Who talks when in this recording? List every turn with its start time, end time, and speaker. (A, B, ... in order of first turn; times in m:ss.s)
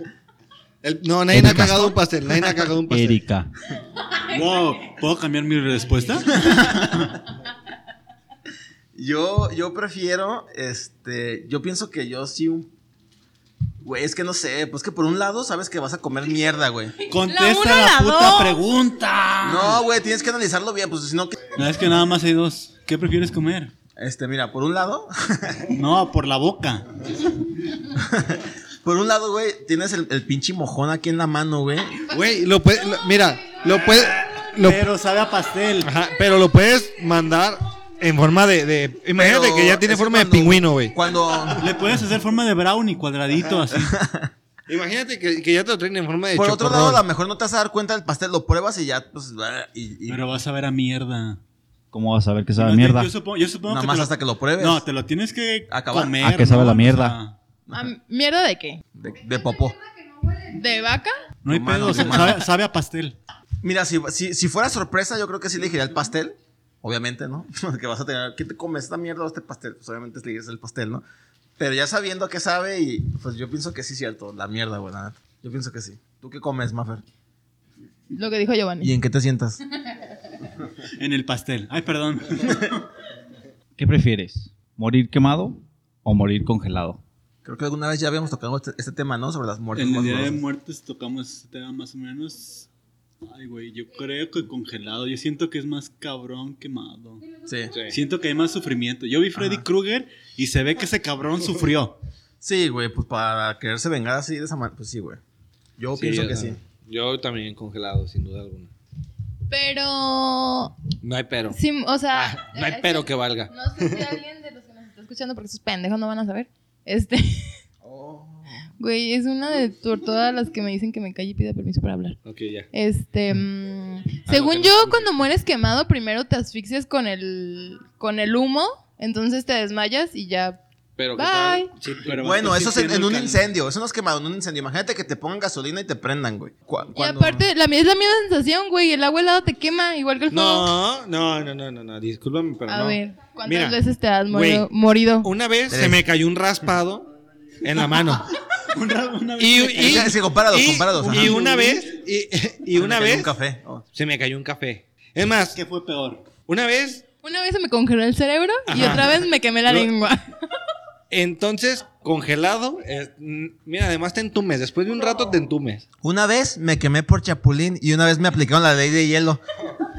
0:00.8-0:03.2 A
0:01.3-0:02.0 B
0:02.9-0:03.5 B
0:04.3-0:07.2 C
0:09.0-0:12.7 D
0:13.8-0:17.0 D
0:17.1-0:19.8 C
0:17.2-0:18.6 E
0:19.4-0:21.5 D
0:21.6-0:23.7 C
0:24.0-0:25.7 D
0:25.7-0:26.9 C
0:28.0-0:32.1 D
0:32.1-0:34.8 A
0:34.4-0:35.9 C
0:35.8-0:41.0 A
0:39.2-0:41.7 D
0:41.6-0:44.0 C
0:43.7-0:44.3 D
0:44.7-0:47.0 A
0:46.3-0:50.2 D
0:50.1-0:51.4 C
0:51.9-0:53.1 B
0:52.6-0:57.4 C
0:53.7-0:54.8 D
0:55.7-0:56.2 D
0:56.2-0:57.2 B
0:57.7-0:58.8 E
0:59.0-0:59.8 D
1:00.4-1:01.2 E
1:01.4-1:03.2 C
1:01.5-1:02.5 D
1:03.6-1:11.0 D
1:11.6-1:17.0 D
1:18.1-1:18.9 E
1:18.8-1:19.6 D
1:21.0-1:22.8 C
1:23.8-1:27.0 B
1:27.4-1:30.4 D
1:29.8-1:32.7 C
1:33.2-1:37.2 C
1:37.5-1:37.7 D
1:37.7-1:38.0 A
1:37.9-1:42.0 C
1:39.4-1:39.6 D
1:42.4-1:45.2 D
1:45.8-1:46.6 D
1:46.0-1:48.7 A
1:49.5-1:50.8 E
1:51.0-1:51.6 A
1:51.5-1:57.6 E
1:52.1-1:54.1 A
1:57.9-1:58.3 D
1:58.8-2:02.2 E
2:02.2-2:02.7 A
2:02.7-2:10.6 E
2:04.3-2:05.1 A
2:11.0-2:12.1 A
2:11.2-2:11.7 E
2:12.0-2:13.5 C
2:12.2-2:17.4 D
2:16.9-2:20.7 E
2:20.3-2:23.8 A
2:22.7-2:25.3 E
2:24.3-2:24.7 A
2:25.2-2:27.1 A
2:25.7-2:26.0 D
2:27.6-2:28.3 A
2:28.7-2:30.2 C
2:29.4-2:33.3 A
2:29.8-2:31.8 D
2:31.1-2:31.5 C
2:32.7-2:33.8 D
2:33.9-2:35.6 A
2:35.6-2:36.3 C
2:36.4-2:37.0 A
2:37.2-2:40.3 E
2:38.7-2:39.9 A
2:41.1-2:45.8 A
2:46.0-2:49.4 D